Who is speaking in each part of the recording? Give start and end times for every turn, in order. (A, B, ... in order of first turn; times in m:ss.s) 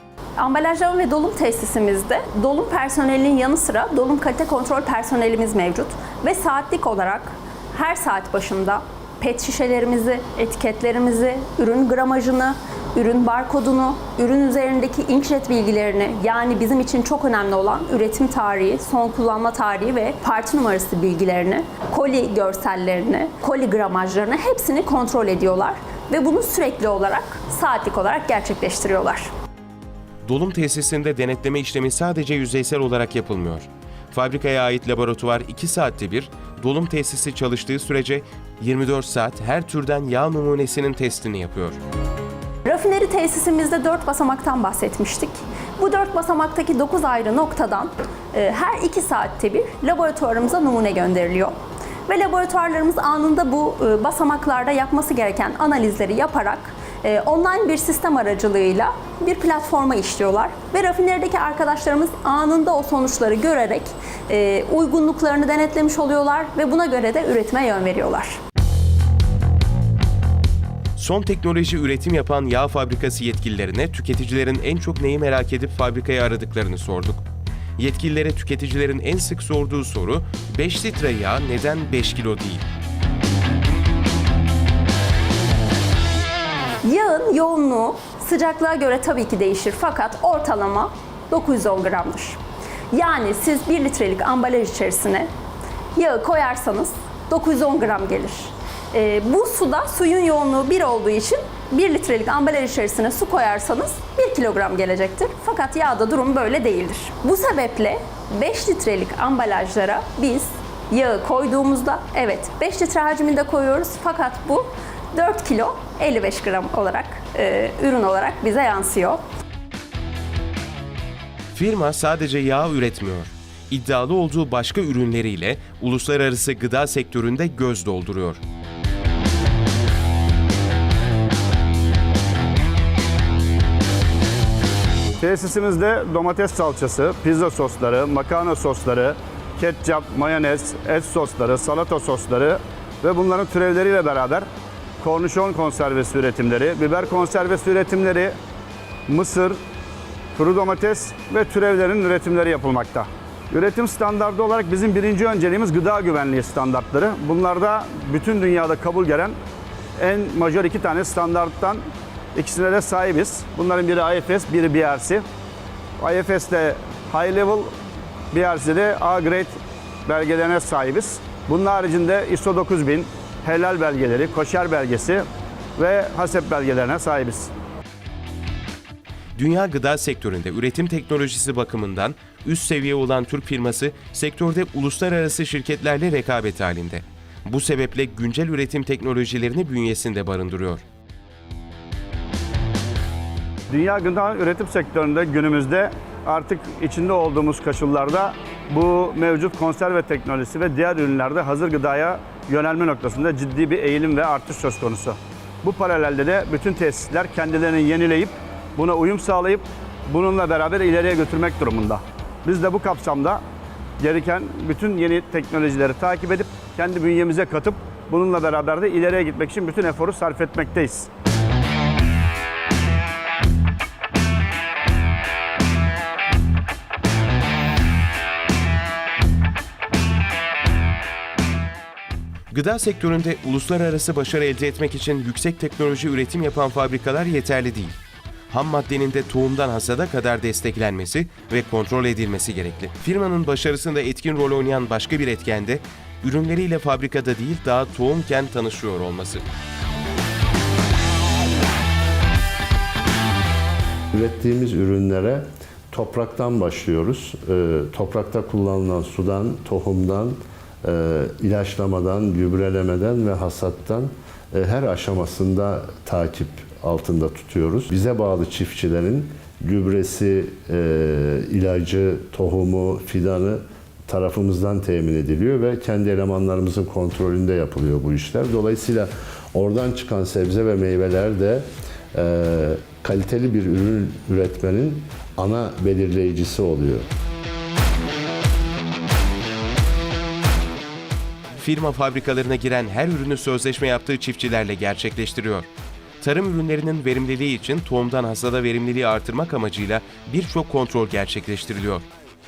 0:00.4-0:29.3 A
0:30.2-0:41.8 B
0:42.6-0:51.5 A
0:52.1-1:08.4 A
1:11.0-1:17.2 B
1:17.8-1:22.7 B
1:26.8-1:32.4 A
1:32.9-1:35.3 A
1:36.0-1:59.2 A
2:01.6-2:08.4 B
2:15.2-2:24.5 C
2:25.0-2:28.4 C
2:29.1-2:29.6 C
2:30.4-2:39.4 C
2:40.0-2:41.8 C
2:42.4-2:45.2 C
2:46.0-2:47.7 C
2:48.3-2:55.3 C
2:55.8-2:57.5 C
2:59.4-3:10.8 B
3:13.7-3:33.4 C
3:34.0-3:41.1 C
3:52.5-3:58.0 B
3:58.5-4:09.4 B
4:14.1-4:47.1 D
4:51.6-4:55.7 B
4:56.2-5:02.1 B